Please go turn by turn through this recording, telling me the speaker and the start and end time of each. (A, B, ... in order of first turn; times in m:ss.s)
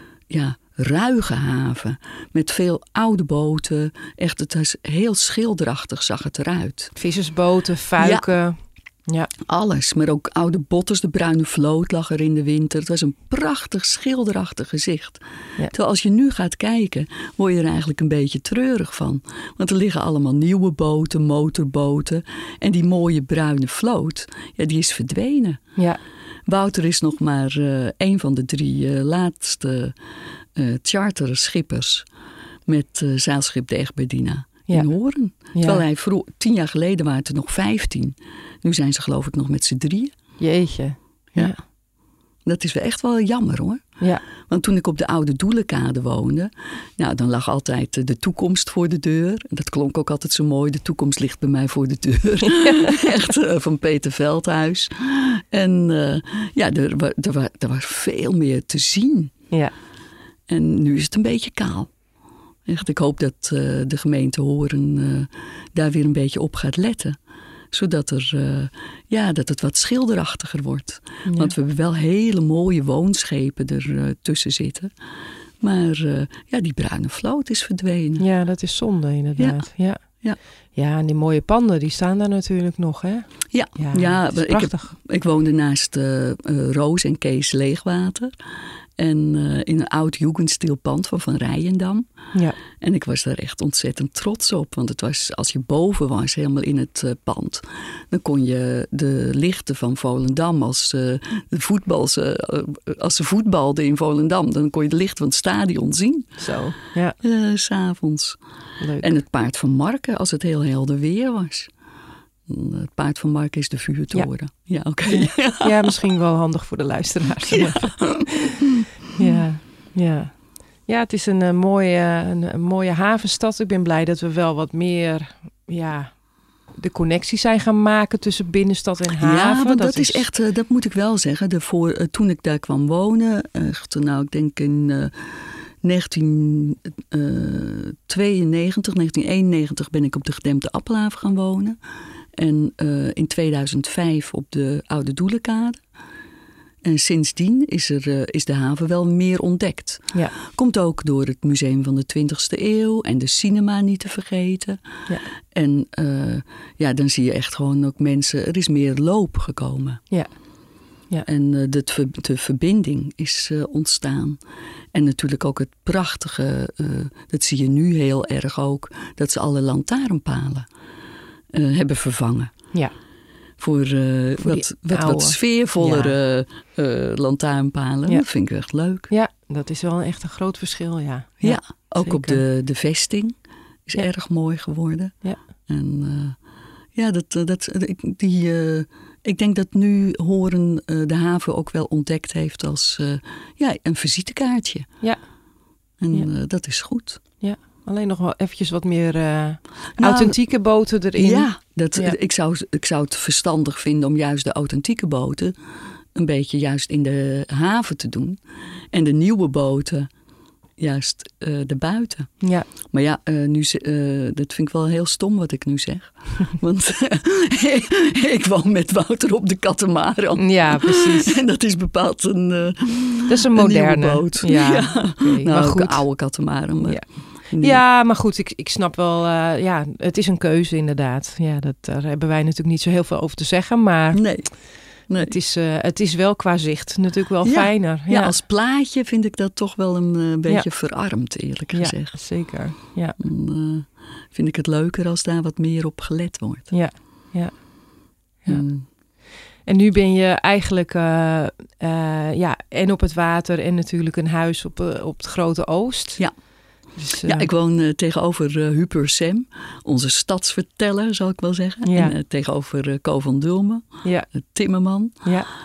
0:00.3-0:06.9 A
0:07.0-0:09.3 B
0:08.0-0:08.3 A
0:09.4-0:15.2 A
0:15.7-0:25.6 A
0:26.5-0:30.0 A
0:30.5-0:32.0 A
0:32.7-0:40.1 A
0:35.5-0:35.8 B
0:40.4-0:41.6 B
0:42.4-0:43.8 A
0:44.5-0:59.3 A
0:52.5-0:52.9 B
1:00.5-1:01.9 A
1:02.6-1:07.2 A
1:07.7-1:14.9 A
1:11.3-1:11.5 B
1:15.6-1:18.2 A
1:18.2-1:20.0 B
1:19.4-1:19.6 A
1:20.7-1:24.9 B
1:23.5-1:28.3 A
1:29.0-1:32.0 A
1:32.7-1:46.4 A
1:46.4-1:47.2 B
1:47.2-1:48.4 A
1:48.8-1:49.2 B
1:49.0-1:51.7 A
1:52.5-1:55.9 A
1:55.1-1:58.6 B
1:57.5-1:58.8 A
1:59.1-2:06.2 B
2:06.8-2:10.2 B
2:09.2-2:21.8 A
2:22.4-2:25.8 A
2:26.8-2:34.8 A
2:35.5-2:40.0 A
2:41.2-2:44.4 A
2:44.9-2:50.7 A
2:51.5-2:52.5 A
2:53.6-2:59.1 A
2:54.4-2:56.2 B
2:59.1-3:02.4 B
3:01.4-3:03.3 A
3:03.8-3:06.4 A
3:06.9-3:14.9 A
3:16.0-3:17.2 A
3:17.4-3:22.1 B
3:20.0-3:20.4 A
3:21.1-3:25.5 A
3:26.1-3:28.4 A
3:28.9-3:30.1 A
3:30.8-3:32.3 A
3:32.4-3:32.7 B
3:32.9-3:47.8 A
3:40.4-3:41.4 B
3:43.3-3:46.0 B
3:47.6-3:54.2 B
3:54.1-3:54.5 A
3:55.1-3:55.3 A
3:55.2-3:58.3 B
3:57.4-4:02.2 A
4:01.7-4:03.2 B
4:03.2-4:06.7 A
4:06.7-4:07.6 B
4:08.5-4:08.8 A
4:09.6-4:16.2 B
4:17.0-4:17.5 B
4:17.2-4:25.2 A
4:21.8-4:22.1 B
4:24.0-4:24.3 B
4:25.2-4:25.5 B